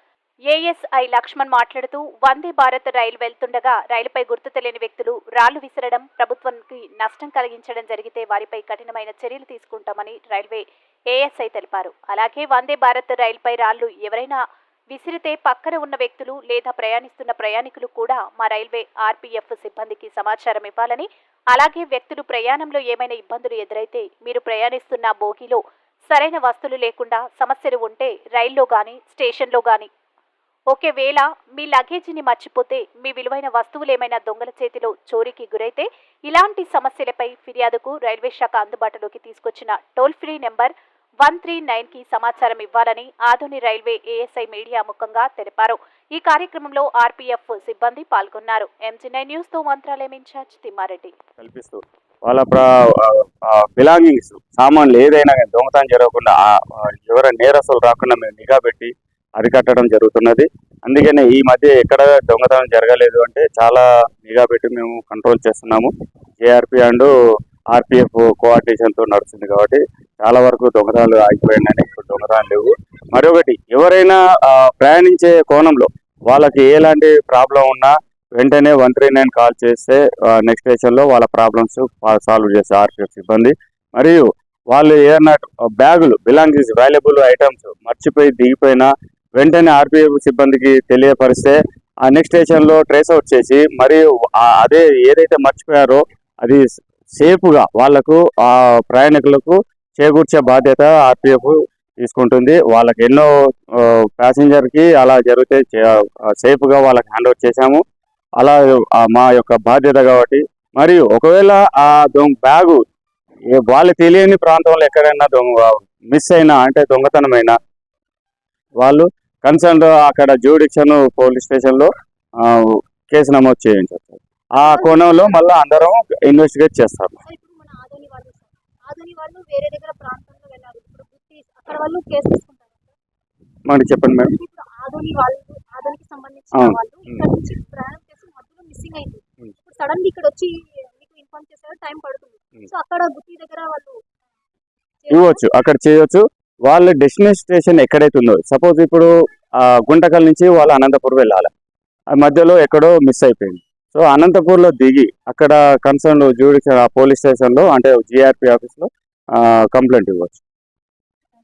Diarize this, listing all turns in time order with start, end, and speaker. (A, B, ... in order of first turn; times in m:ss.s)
0:00.5-0:14.4 A
0:14.9-0:29.9 A
0:30.7-0:40.7 A
0:41.2-0:51.1 A
0:51.4-1:05.9 B
1:06.4-1:07.1 B
1:07.7-1:36.6 B
1:37.2-1:47.8 B
1:48.4-1:52.8 B
1:53.5-1:57.6 B
1:58.8-2:01.9 B
2:02.4-2:07.2 B
2:04.6-2:05.3 C
2:07.2-2:12.9 C
2:13.7-2:14.3 B
2:14.2-2:24.0 C
2:16.5-2:17.2 B
2:25.0-2:25.4 C
2:25.1-2:29.1 B
2:29.6-2:31.5 B
2:32.1-2:40.4 B